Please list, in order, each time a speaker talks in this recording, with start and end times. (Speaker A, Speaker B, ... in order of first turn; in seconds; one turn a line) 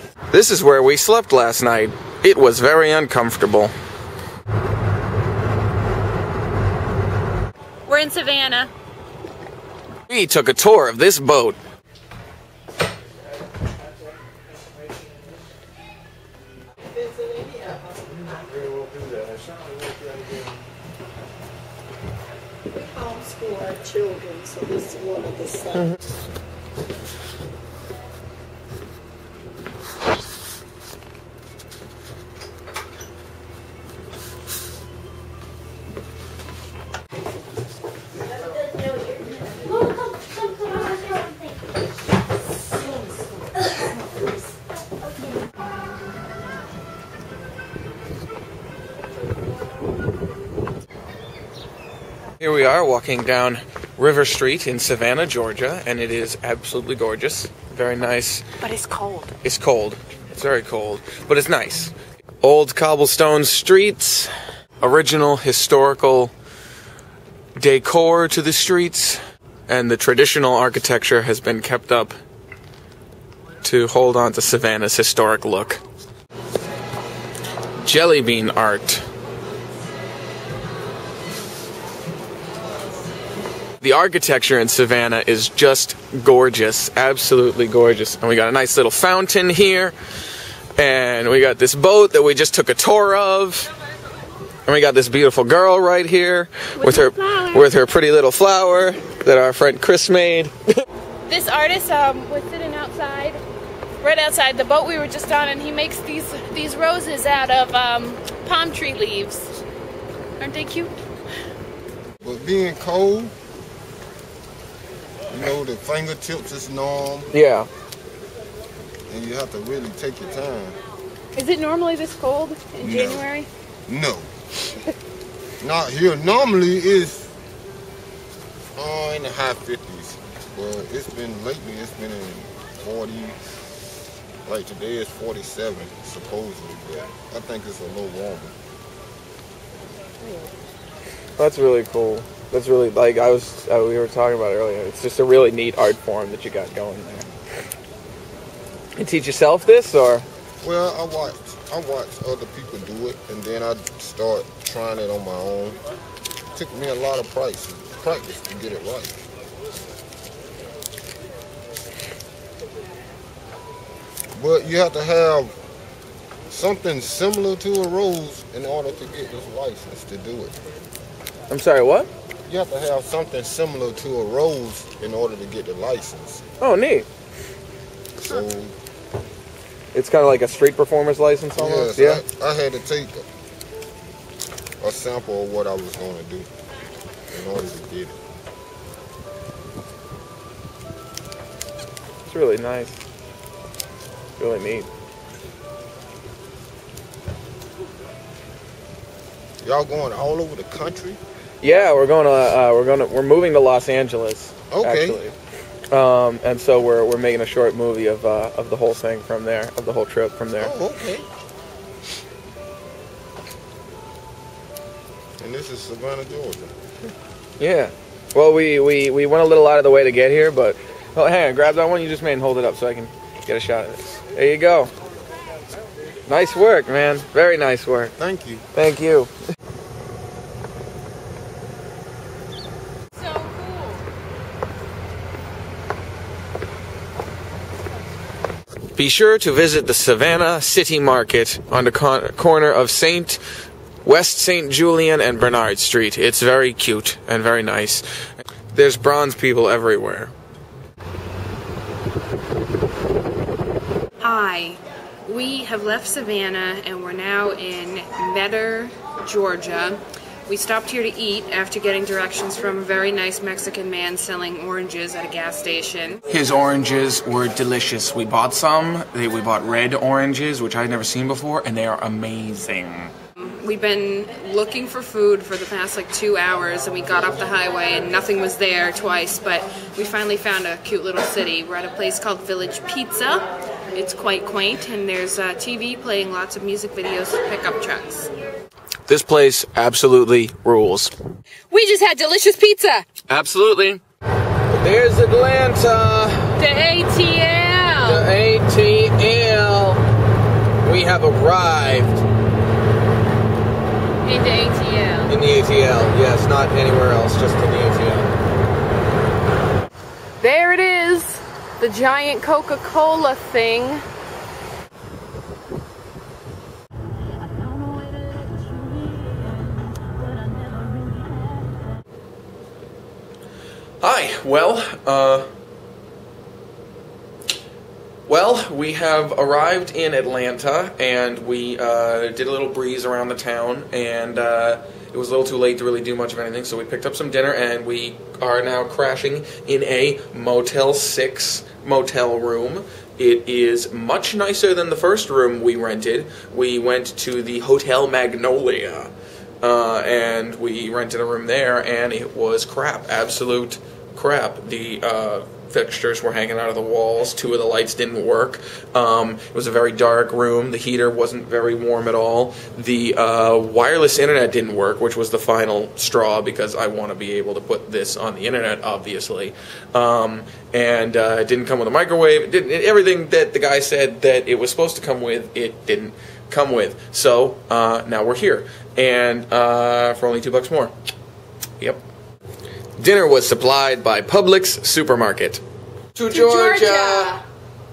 Speaker A: 0.3-3.7
Speaker B: 7.9-8.7
Speaker A: 10.1-11.6
Speaker C: 23.1-24.2
Speaker B: 24.2-24.9
Speaker C: 24.9-25.8
Speaker A: 52.4-58.5
Speaker B: 58.6-59.3
Speaker A: 59.4-66.3
Speaker A: 67.6-72.2
Speaker A: 73.6-75.8
Speaker A: 77.8-79.0
Speaker A: 83.8-89.9
Speaker A: 90.8-93.7
Speaker A: 94.7-100.5
Speaker B: 96.8-97.6
Speaker B: 101.3-103.4
Speaker B: 104.0-109.6
Speaker B: 110.4-110.9
Speaker D: 112.2-113.3
Speaker D: 115.3-117.3
Speaker A: 117.3-117.7
Speaker D: 119.1-120.8
Speaker B: 121.3-123.5
Speaker D: 122.8-123.3
Speaker D: 123.9-124.3
Speaker D: 125.6-127.3
Speaker D: 128.8-133.4
Speaker D: 134.4-138.5
Speaker A: 141.4-147.3
Speaker A: 149.0-150.2
Speaker D: 150.6-155.8
Speaker D: 156.5-159.2
Speaker D: 164.3-165.6
Speaker D: 166.5-170.6
Speaker A: 171.5-172.1
Speaker D: 172.5-176.4
Speaker A: 176.6-177.1
Speaker D: 178.2-178.8
Speaker A: 179.9-182.2
Speaker D: 181.6-183.2
Speaker D: 184.8-186.5
Speaker D: 187.3-188.2
Speaker A: 192.2-193.0
Speaker A: 194.4-194.9
Speaker D: 199.6-201.2
Speaker A: 201.6-205.3
Speaker D: 204.7-205.2
Speaker A: 205.9-210.7
Speaker D: 210.6-211.2
Speaker D: 215.4-216.7
Speaker A: 217.6-224.9
Speaker A: 226.3-228.1
Speaker D: 228.2-228.6
Speaker A: 228.7-229.3
Speaker B: 233.2-234.1
Speaker A: 238.9-243.4
Speaker A: 244.0-248.0
Speaker A: 248.7-250.3
Speaker B: 254.2-266.2
Speaker A: 266.3-273.1
Speaker B: 273.4-288.3
Speaker A: 289.1-291.1
Speaker B: 291.7-293.1
Speaker A: 293.3-294.0
Speaker A: 294.7-296.6
Speaker B: 296.6-298.2
Speaker A: 298.0-300.0
Speaker A: 300.8-302.2
Speaker B: 304.2-305.4
Speaker A: 305.3-308.3
Speaker B: 310.4-314.0
Speaker A: 324.0-325.5
Speaker A: 328.3-380.9
Speaker A: 383.0-385.6
Speaker A: 386.1-387.3
Speaker B: 386.3-387.4